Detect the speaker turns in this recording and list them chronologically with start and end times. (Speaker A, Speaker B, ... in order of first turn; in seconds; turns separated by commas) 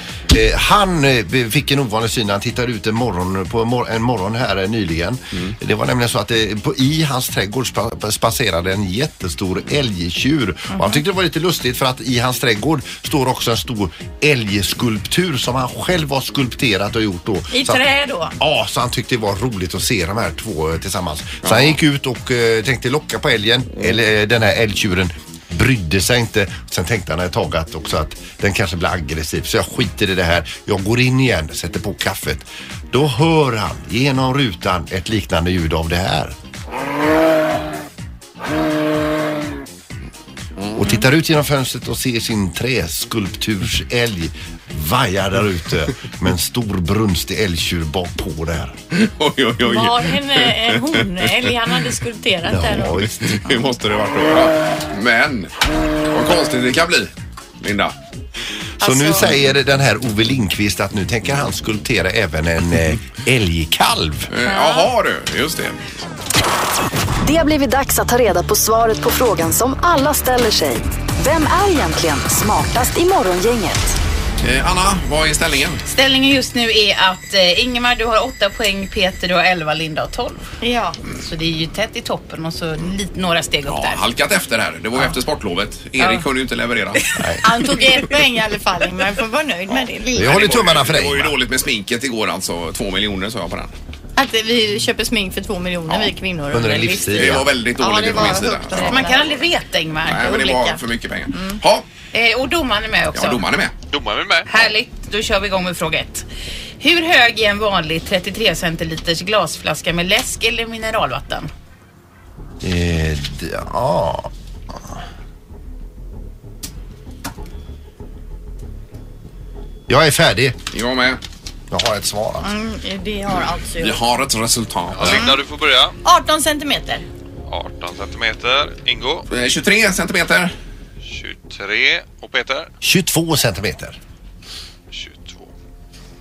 Speaker A: 0.3-17.9, Speaker B: 10.7-11.0, Speaker B: 17.5-18.4, Speaker A: 18.4-36.3, Speaker C: 21.4-21.8, Speaker A: 40.7-48.8, Speaker C: 48.9-51.5, Speaker B: 49.6-53.0, Speaker A: 52.5-53.4, Speaker C: 53.2-55.5, Speaker C: 56.1-57.9, Speaker B: 58.8-59.3, Speaker A: 58.8-64.3, Speaker C: 64.3-66.0, Speaker B: 64.5-64.9, Speaker D: 67.2-74.0, Speaker C: 74.4-75.8, Speaker E: 75.9-80.4, Speaker B: 80.6-81.0, Speaker E: 81.1-84.0, Speaker C: 83.6-87.0, Speaker E: 86.0-86.2, Speaker E: 87.0-87.3, Speaker B: 87.4-90.5, Speaker A: 90.2-91.3, Speaker C: 90.2-93.7, Speaker B: 94.2-99.3, Speaker A: 96.5-97.5, Speaker C: 97.1-99.3, Speaker E: 98.7-100.8, Speaker C: 100.0-101.8, Speaker E: 102.1-103.5, Speaker C: 103.1-103.7, Speaker F: 103.9-104.5, Speaker E: 104.5-106.2, Speaker E: 106.8-111.5, Speaker A: 112.6-114.9, Speaker A: 119.9-120.6, Speaker C: 120.7-121.2, Speaker A: 121.7-122.5, Speaker B: 122.4-124.0, Speaker C: 123.8-125.2, Speaker F: 125.0-126.0, Speaker B: 125.0-125.4, Speaker B: 126.0-127.0, Speaker F: 127.5-129.3, Speaker C: 129.3-130.5, Speaker F: 131.0-132.7, Speaker A: 132.8-134.0, Speaker F: 134.9-135.5